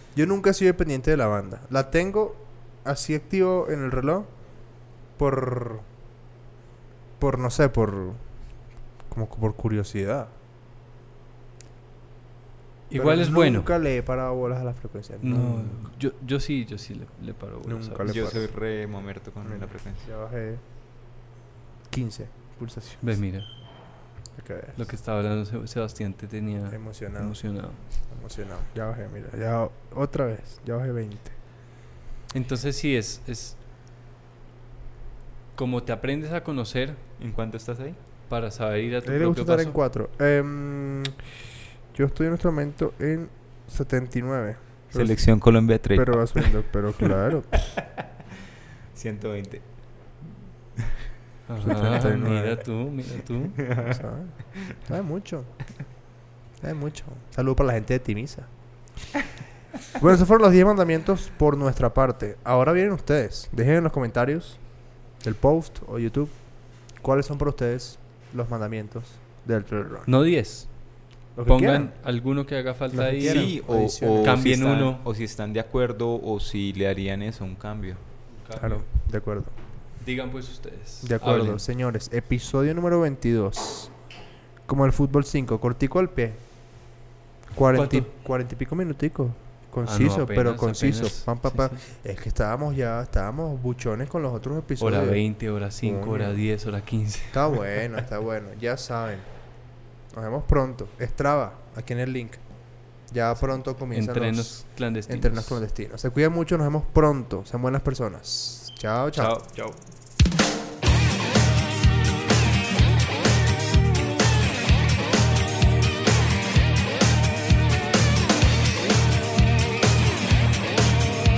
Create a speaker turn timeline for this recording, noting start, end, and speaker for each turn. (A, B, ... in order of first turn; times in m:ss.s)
0:00.1-0:04.3 A
0:05.2-0:05.8 A
0:07.2-0:08.2 A
0:09.1-0:10.3 A
0:12.9-0:13.7 B
0:12.9-0:15.9 A
0:15.2-0:18.4 B
0:17.6-0:18.5 A
0:18.0-0:20.1 C
0:19.4-0:20.6 A
0:21.9-0:23.2 A
0:23.0-0:23.5 B
0:24.4-0:24.8 A
0:24.8-0:27.8 B
0:26.7-0:27.4 A
0:28.1-0:31.4 A
0:32.3-0:33.6 B
0:35.5-0:37.0 B
0:37.2-0:38.0 C
0:38.3-0:39.8 B
0:39.0-0:41.2 A
0:41.9-0:45.2 A
0:44.9-0:48.0 C
0:45.9-0:47.6 A
0:48.9-0:49.6 C
0:51.5-0:53.6 B
0:51.6-0:52.6 A
0:53.6-0:54.0 C
0:53.8-0:55.5 A
0:56.6-0:58.5 A
1:00.0-1:04.6 A
1:05.2-1:06.3 A
1:07.0-1:10.1 A
1:10.1-1:10.7 B
1:11.4-1:11.9 A
1:11.4-1:13.5 B
1:12.9-1:14.4 A
1:13.2-1:18.0 C
1:14.2-1:15.0 B
1:18.4-1:18.8 B
1:18.6-1:19.5 A
1:20.0-1:21.6 B
1:21.0-1:23.9 A
1:24.7-1:26.4 A
1:27.5-1:35.2 A
1:27.7-1:28.1 B
1:29.8-1:31.8 B
1:34.8-1:37.7 B
1:35.8-1:36.4 A
1:37.3-1:39.3 A
1:40.1-1:42.4 A
1:43.1-1:49.4 A
1:43.9-1:45.6 B
1:49.2-1:49.8 B